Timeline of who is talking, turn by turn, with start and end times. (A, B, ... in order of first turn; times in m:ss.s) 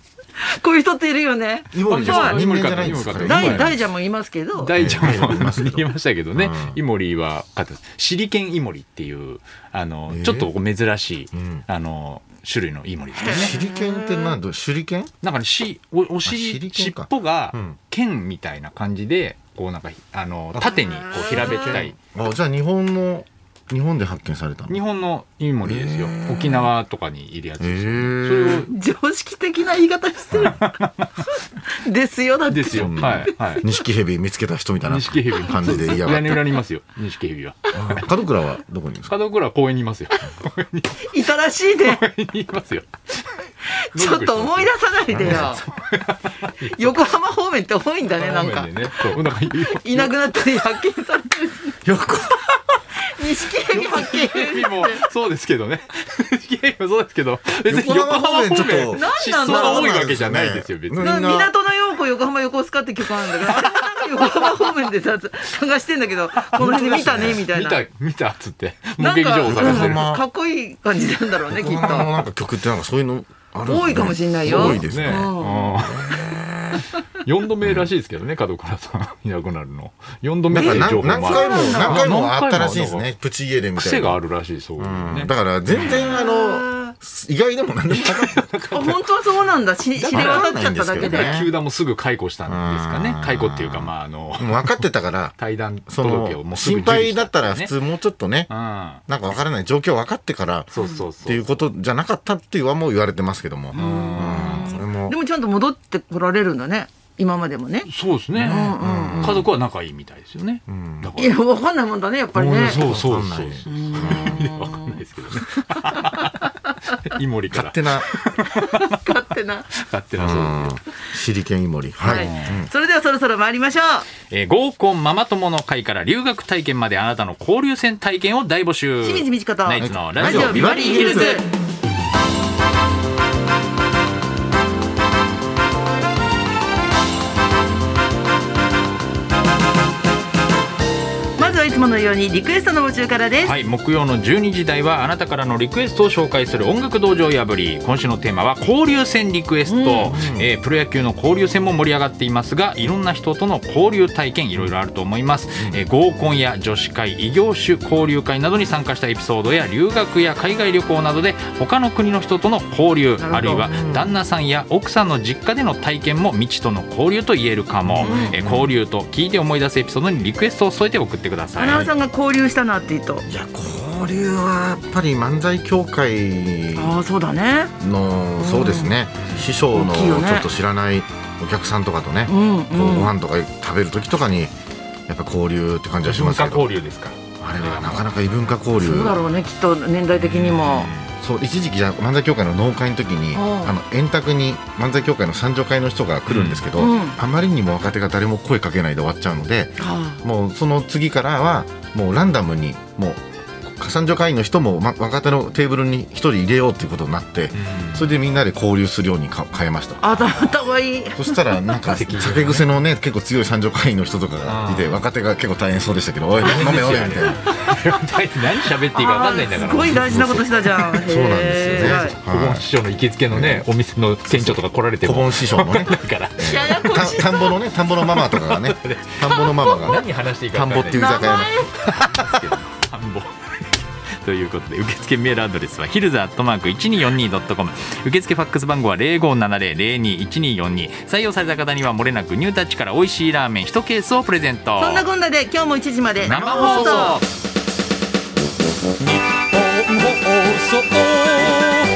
0:00.4-0:02.4 A
0:01.7-0:03.8 B
0:01.8-0:03.8 C
0:03.2-0:04.8 A
0:04.6-0:13.6 C
0:04.8-0:06.8 B
0:10.1-0:10.5 B
0:11.3-0:11.6 B
0:13.1-0:14.4 A
0:13.2-0:15.1 B
0:15.2-0:22.0 C
0:16.2-0:17.8 B
0:20.5-0:24.8 B
0:21.4-0:21.8 A
0:24.7-0:28.7 C
0:25.6-0:26.7 B
0:27.6-0:28.7 B
0:28.5-0:30.8 A
0:30.4-0:31.2 C
0:31.3-0:33.6 A
0:32.5-0:33.6 C
0:32.7-0:36.5 B
0:34.8-0:38.1 C
0:35.6-0:36.3 A
0:37.7-0:39.1 B
0:39.1-0:41.2 C
0:41.0-0:42.0 A
0:41.7-0:47.1 C
0:43.7-0:45.6 A
0:45.1-0:45.5 B
0:46.6-0:51.8 A
0:48.2-0:50.6 C
0:51.8-0:52.8 B
0:53.0-0:55.1 A
0:53.7-0:54.1 B
0:53.8-1:01.1 C
0:57.6-1:01.5 B
0:58.8-1:00.0 A
1:01.0-1:07.8 A
1:03.3-1:04.3 C
1:06.3-1:10.1 C
1:06.6-1:07.4 B
1:09.0-1:12.1 A
1:09.4-1:10.2 B
1:11.5-1:16.9 B
1:13.6-1:15.7 A
1:14.4-1:23.1 C
1:17.6-1:17.9 B
1:20.5-1:24.2 B
1:20.5-1:22.1 A
1:23.8-1:26.1 C
1:24.8-1:28.4 B
1:25.8-1:26.9 A
1:27.9-1:29.1 C
1:28.7-1:31.4 A
1:30.0-1:31.5 B
1:30.1-1:34.8 C
1:32.4-1:35.4 B
1:35.4-1:37.7 C
1:35.9-1:38.5 B
1:38.5-1:39.0 C
1:39.1-1:40.7 B
1:40.7-1:41.5 C
1:40.8-1:41.0 A
1:41.2-1:45.1 B
1:43.7-1:44.8 C
1:43.7-1:47.9 A
1:47.8-1:51.3 C
1:48.3-1:49.5 B
1:48.4-1:49.4 A
1:50.7-1:51.2 B
1:51.2-1:52.8 A
1:52.4-2:00.8 C
1:52.4-1:54.5 B
1:53.7-1:55.0 A
1:55.7-1:56.5 A
1:57.5-1:58.1 B
1:58.4-1:59.7 A
2:00.2-2:02.7 B
2:02.0-2:02.6 C
2:02.0-2:04.1 A
2:04.3-2:11.4 C
2:09.0-2:11.4 A
2:09.8-2:11.4 B
2:21.4-2:23.6 A
2:23.4-2:51.9 C
2:29.6-2:30.2 A
2:30.0-2:30.5 B
2:43.2-2:43.7 A
2:43.4-2:44.1 B
2:47.8-2:48.8 B
2:48.0-2:48.3 A
2:51.6-2:53.3 A
2:53.3-2:56.9 B
2:56.7-2:57.7 A
2:57.8-3:04.5 B
2:58.4-2:59.0 A
2:59.2-2:59.5 C
2:59.7-3:00.5 A
3:02.2-3:03.1 A
3:05.1-3:06.6 B
3:06.0-3:08.1 C
3:07.4-3:09.2 B
3:08.8-3:10.9 A
3:10.1-3:11.1 C
3:11.2-3:30.5 B
3:13.3-3:13.7 A
3:16.3-3:16.7 C
3:16.8-3:17.2 A
3:19.8-3:20.2 A
3:27.5-3:28.1 C
3:30.0-3:31.7 A
3:31.1-3:37.5 B
3:31.8-3:32.6 C
3:34.4-3:35.0 C
3:36.4-3:40.5 C
3:38.9-3:42.2 A
3:39.9-3:42.6 B
3:41.6-3:47.0 C
3:43.3-3:43.7 B
3:44.3-3:52.4 B
3:46.4-3:47.5 A
3:47.9-4:05.1 C
3:50.9-3:51.7 A
4:04.8-4:07.2 A
4:06.2-4:07.3 C
4:09.6-4:11.7 C